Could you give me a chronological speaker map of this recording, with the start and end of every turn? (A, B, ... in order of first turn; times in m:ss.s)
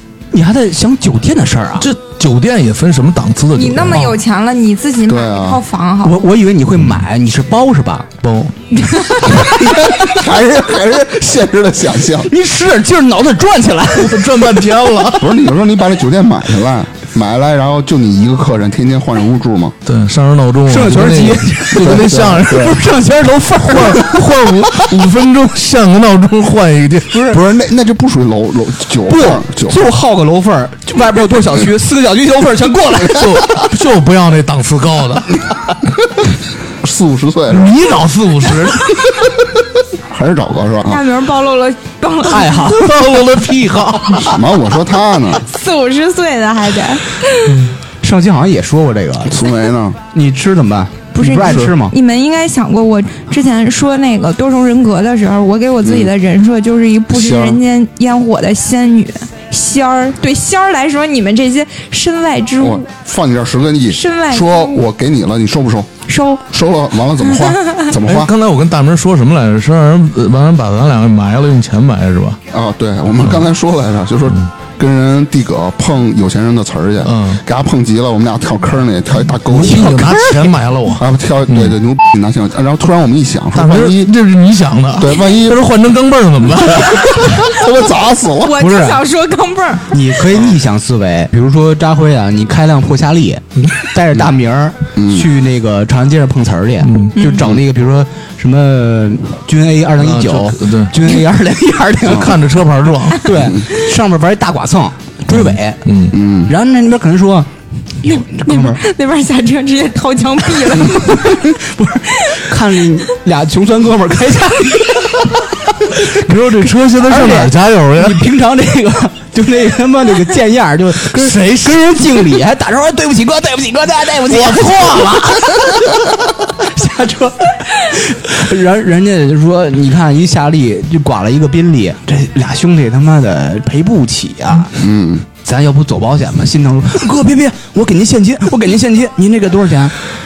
0:00.3-0:01.9 A
0:01.8-0:04.2 B
0:03.5-0:06.2 C
0:05.1-0:05.6 D
0:06.0-0:08.1 A
0:08.2-0:08.5 B
0:08.8-0:09.4 C
0:09.4-0:12.3 D
0:12.2-0:14.3 A
0:13.9-0:15.3 B
0:15.2-0:19.8 D
0:19.8-0:22.8 B
0:20.6-0:24.2 A
0:21.7-0:22.8 D
0:23.6-0:27.2 B
0:27.1-0:27.4 A
0:27.3-0:29.9 D
0:29.1-0:33.4 A
0:33.0-0:35.4 B
0:36.8-0:37.7 D
0:37.5-0:39.0 B
0:40.1-0:41.0 D
0:40.9-0:42.6 C
0:42.3-0:43.1 A
0:42.5-0:44.4 B
0:44.1-0:45.4 D
0:45.4-0:47.5 C
0:48.0-0:49.4 A
0:49.3-0:50.0 D
0:50.1-0:52.0 A
0:51.1-1:02.9 C
0:55.8-0:56.1 D
0:57.1-0:57.6 D
1:02.6-1:05.9 D
1:03.9-1:04.8 C
1:06.1-1:06.4 C
1:06.5-1:08.3 D
1:07.5-1:07.8 C
1:08.0-1:12.4 B
1:12.5-1:20.0 D
1:17.0-1:17.4 B
1:19.4-1:21.8 B
1:19.6-1:20.6 A
1:20.9-1:24.1 D
1:23.5-1:27.5 B
1:25.0-1:25.6 D
1:26.8-1:28.6 D
1:28.4-1:30.0 C
1:28.6-1:29.0 A
1:29.9-1:42.4 A
1:34.9-1:35.3 D
1:36.8-1:37.1 B
1:37.2-1:37.4 C
1:40.0-1:41.0 B
1:42.0-1:43.4 B
1:43.2-1:45.8 A
1:45.3-1:46.2 B
1:46.1-1:46.5 D
1:46.4-1:47.5 A
1:48.0-1:48.8 A
1:48.0-1:51.5 C
1:50.9-1:55.3 A
1:56.0-1:58.2 B
1:57.0-2:14.7 A
2:01.1-2:01.8 B
2:04.3-2:05.6 B
2:14.8-2:15.2 D
2:15.4-2:20.0 A